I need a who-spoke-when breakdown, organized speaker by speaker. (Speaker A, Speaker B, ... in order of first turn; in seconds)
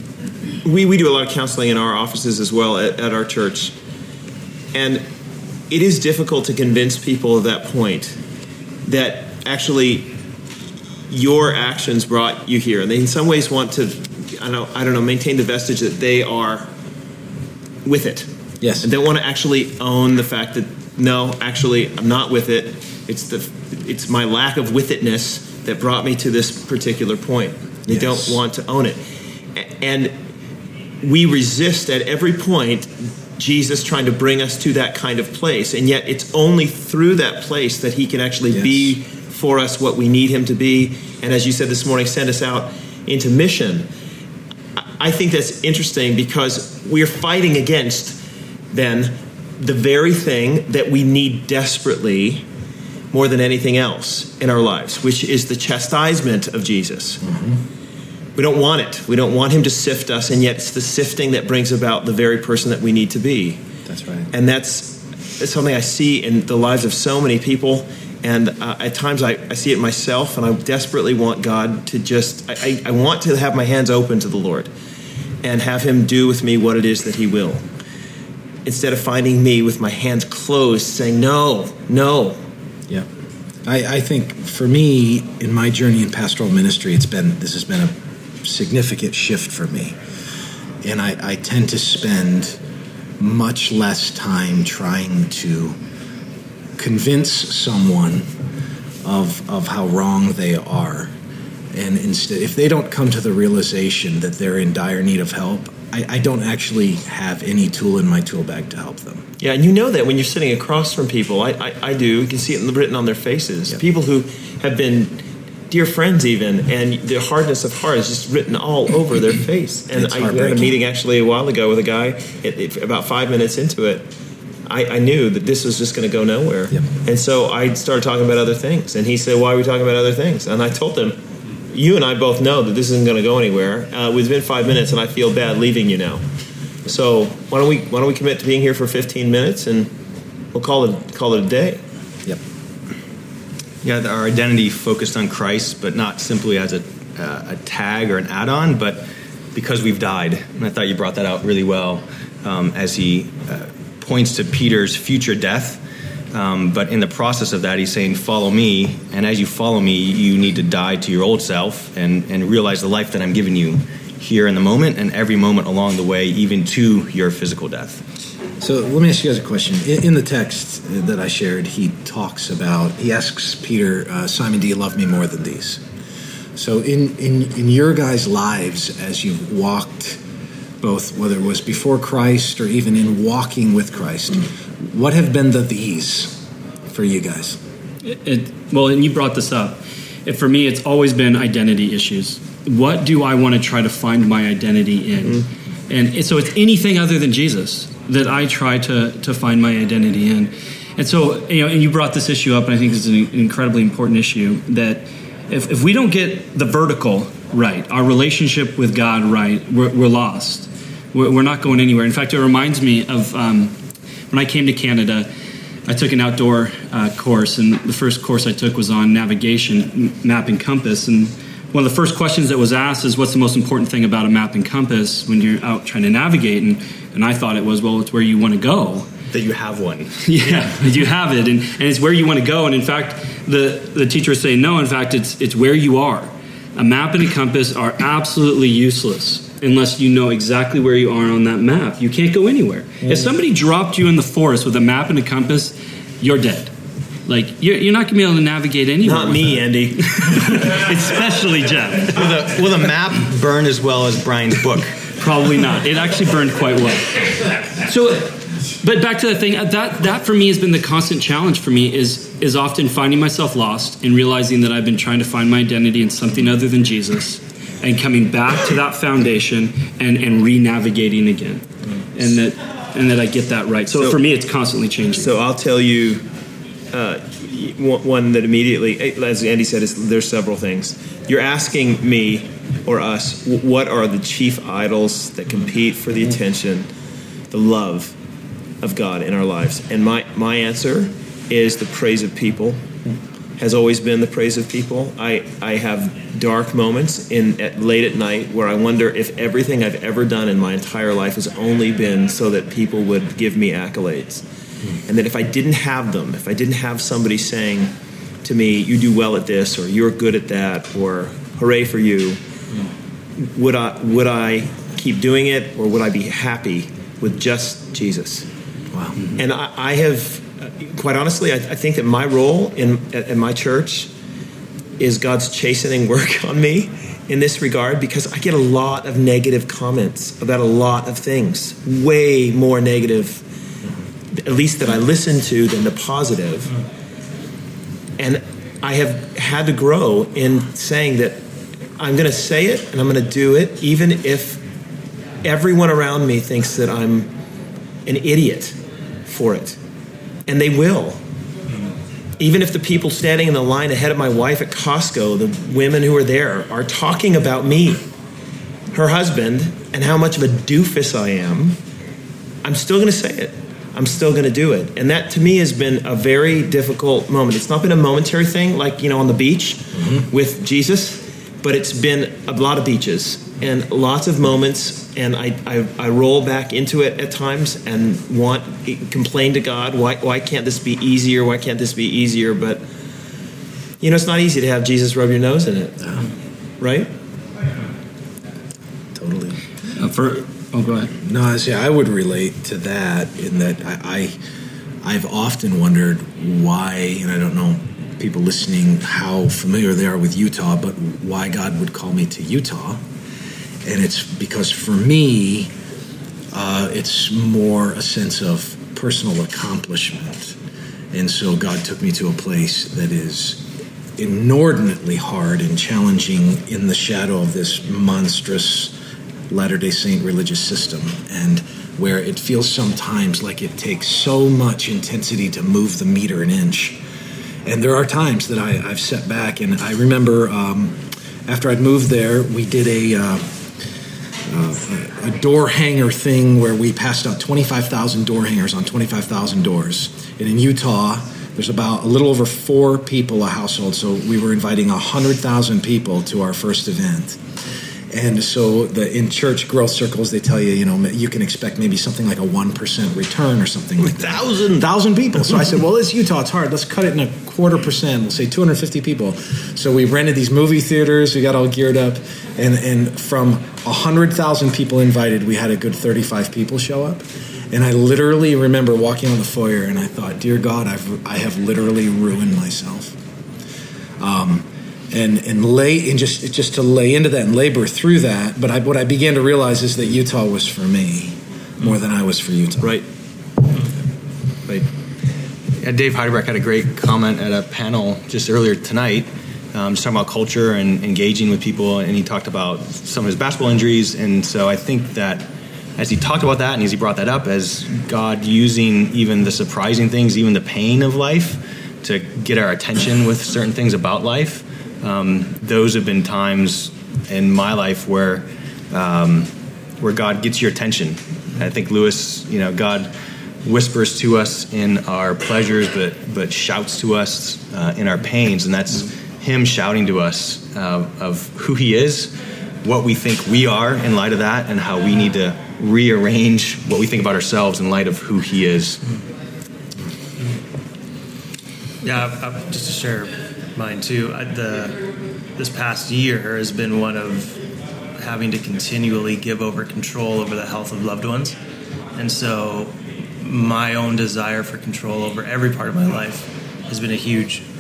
Speaker A: 0.6-3.7, 4.7-5.0, 5.7-8.2, 8.8-10.1, 11.1-16.7, 17.9-18.3, 18.8-29.0, 29.6-30.1, 31.0-43.9, 44.8-48.2, 48.7-52.4, 53.1-57.2, 58.4-63.6, 64.3-74.7, 75.4-77.6, 78.6-82.4, 109.4-124.1, 124.7-131.2, 131.7-136.2, 136.8-139.9, 140.5-141.8, 249.0-250.6, 273.9-274.2, 275.1-276.2, 276.9-286.9, 287.5-288.1, 288.8-293.0, 293.6-304.4, 305.1-307.9, 308.4-312.4, 313.4-318.4, 319.4-324.1, 325.0-333.4, 334.3-336.8, 338.2-341.4, 342.0-344.6, 345.4-347.3, 348.1-349.8, 350.5-351.2, 352.4-358.0, 358.9-361.8, 362.6-382.8, 384.0-386.2, 386.8-387.1, 454.0-454.9
Speaker B: 18.6-18.9, 27.9-28.4, 38.5-39.0, 57.2-57.6, 63.9-64.3, 83.6-90.0, 90.8-92.6, 93.2-95.8, 96.8-98.2, 99.0-101.1, 101.7-109.2, 119.9-120.8, 168.6-175.8, 176.6-180.2, 180.8-187.6, 318.9-319.2, 389.1-389.6, 391.1-394.3, 395.0-403.0, 403.8-405.7, 406.5-410.6, 411.1-413.6, 414.2-418.9, 419.5-427.0, 427.6-433.4, 434.4-447.4, 448.1-473.2, 474.2-483.0
Speaker C: 143.8-155.8, 156.3-168.0, 229.3-230.7, 252.1-255.0, 485.8-513.1, 513.6-522.3, 522.8-529.0
Speaker D: 188.0-213.8, 214.3-215.3, 215.9-229.1, 230.2-246.7, 247.3-252.2, 255.2-257.2, 257.8-275.3, 389.9-391.1
Speaker E: 532.0-535.0, 535.6-537.6, 538.2-541.6, 542.1-547.6